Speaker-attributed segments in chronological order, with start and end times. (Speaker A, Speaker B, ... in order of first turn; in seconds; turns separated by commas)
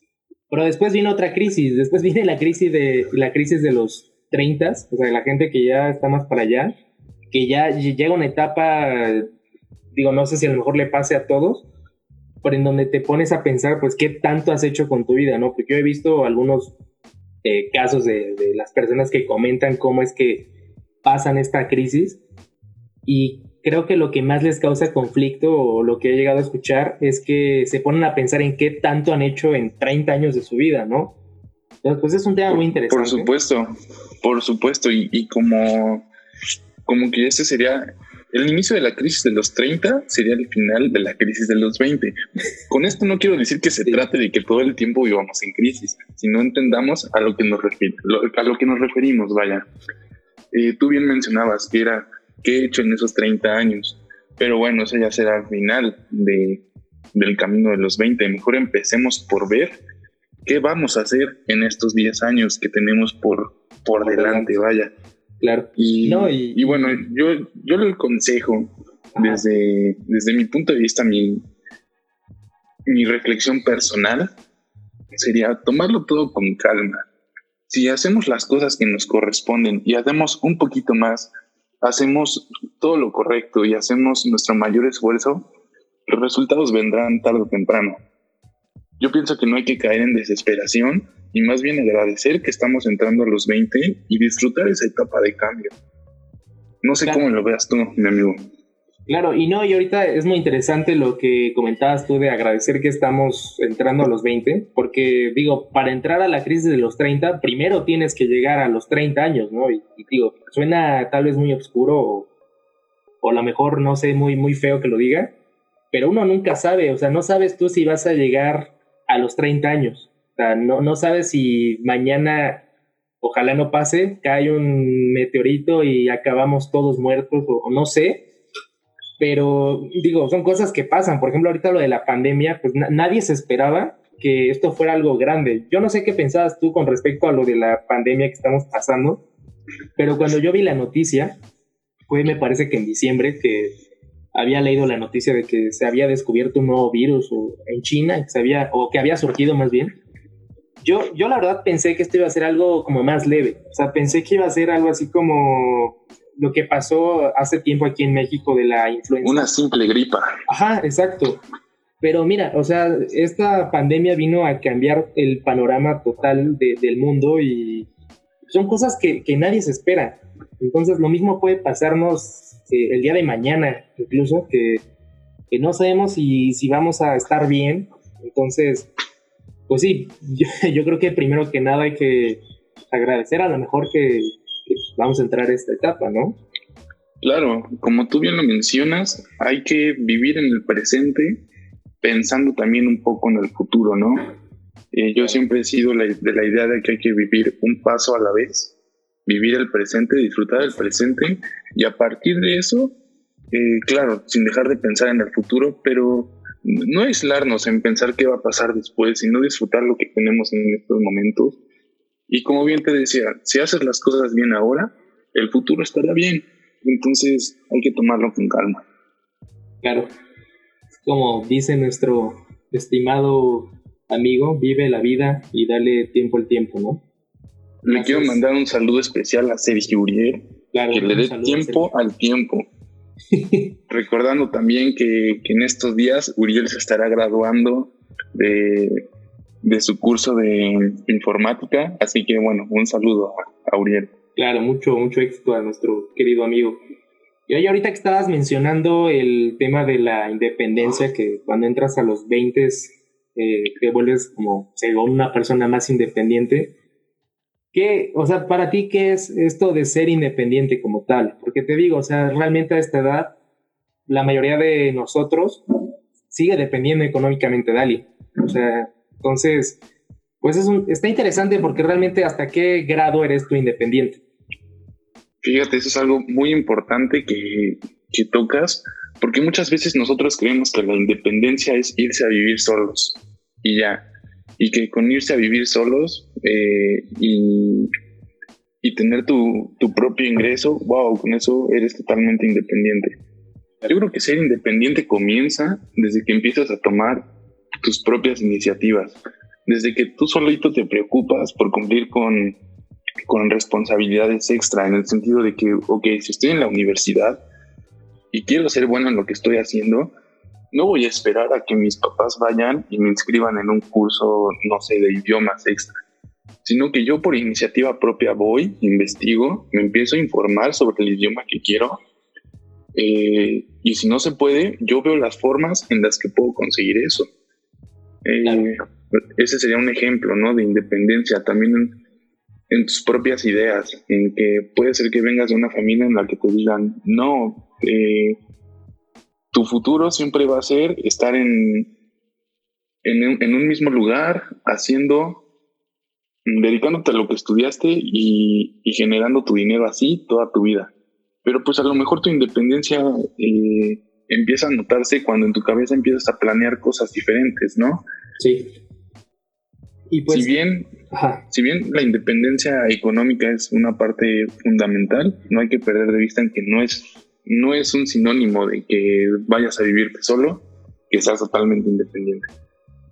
Speaker A: 0.5-6.8, Speaker A: 7.3-9.3, Speaker A: 9.9-11.7, Speaker A: 12.4-16.7, Speaker A: 17.4-20.5, Speaker A: 21.0-22.2, Speaker A: 23.1-31.2, Speaker A: 31.8-33.3, Speaker B: 32.5-36.1, Speaker B: 36.9-42.1, Speaker B: 42.7-49.7, Speaker B: 50.5-56.6, Speaker B: 57.1-59.8, Speaker B: 60.5-64.9, Speaker A: 64.0-64.6, Speaker A: 65.4-67.1, Speaker B: 65.8-71.5, Speaker A: 69.2-69.4, Speaker B: 72.9-74.3, Speaker B: 75.1-77.1, Speaker B: 77.7-81.3, Speaker B: 81.8-85.5, Speaker B: 86.1-88.0, Speaker B: 89.0-95.7, Speaker B: 96.8-98.4, Speaker A: 99.1-112.3, Speaker A: 113.2-115.3, Speaker A: 115.9-122.7, Speaker A: 123.2-128.3, Speaker A: 129.2-139.2, Speaker A: 140.0-141.4, Speaker A: 142.1-143.7, Speaker A: 144.3-150.0, Speaker A: 150.8-159.5, Speaker B: 159.2-160.4, Speaker A: 160.5-161.4, Speaker A: 162.0-167.9, Speaker A: 168.5-174.8, Speaker A: 175.5-178.9, Speaker A: 179.7-186.4, Speaker B: 187.2-191.4, Speaker B: 192.0-194.3, Speaker B: 194.9-198.8, Speaker B: 199.3-202.9, Speaker B: 203.5-211.6, Speaker B: 212.3-218.8, Speaker A: 219.8-220.1, Speaker A: 221.1-227.0, Speaker B: 227.8-232.7, Speaker A: 227.9-228.4, Speaker A: 230.7-231.9, Speaker A: 233.3-233.8, Speaker B: 233.9-239.1, Speaker B: 239.6-244.1, Speaker A: 244.4-246.8, Speaker A: 247.5-256.8, Speaker A: 257.7-263.4, Speaker A: 264.1-265.6, Speaker A: 266.3-269.8, Speaker A: 270.4-274.2, Speaker B: 275.4-284.1, Speaker B: 284.6-287.9, Speaker B: 288.8-293.2, Speaker B: 293.9-297.3, Speaker B: 297.8-302.6, Speaker B: 303.3-307.4, Speaker B: 308.3-310.1, Speaker B: 310.7-315.9, Speaker B: 316.6-322.0, Speaker B: 322.9-327.3, Speaker B: 328.2-331.9, Speaker A: 328.4-328.7, Speaker B: 332.7-338.4, Speaker B: 339.5-341.9, Speaker B: 343.0-345.4, Speaker B: 346.5-350.9, Speaker B: 351.4-358.0, Speaker A: 358.4-358.7, Speaker A: 360.1-360.6, Speaker B: 360.3-360.9, Speaker A: 361.1-361.4, Speaker B: 361.5-372.5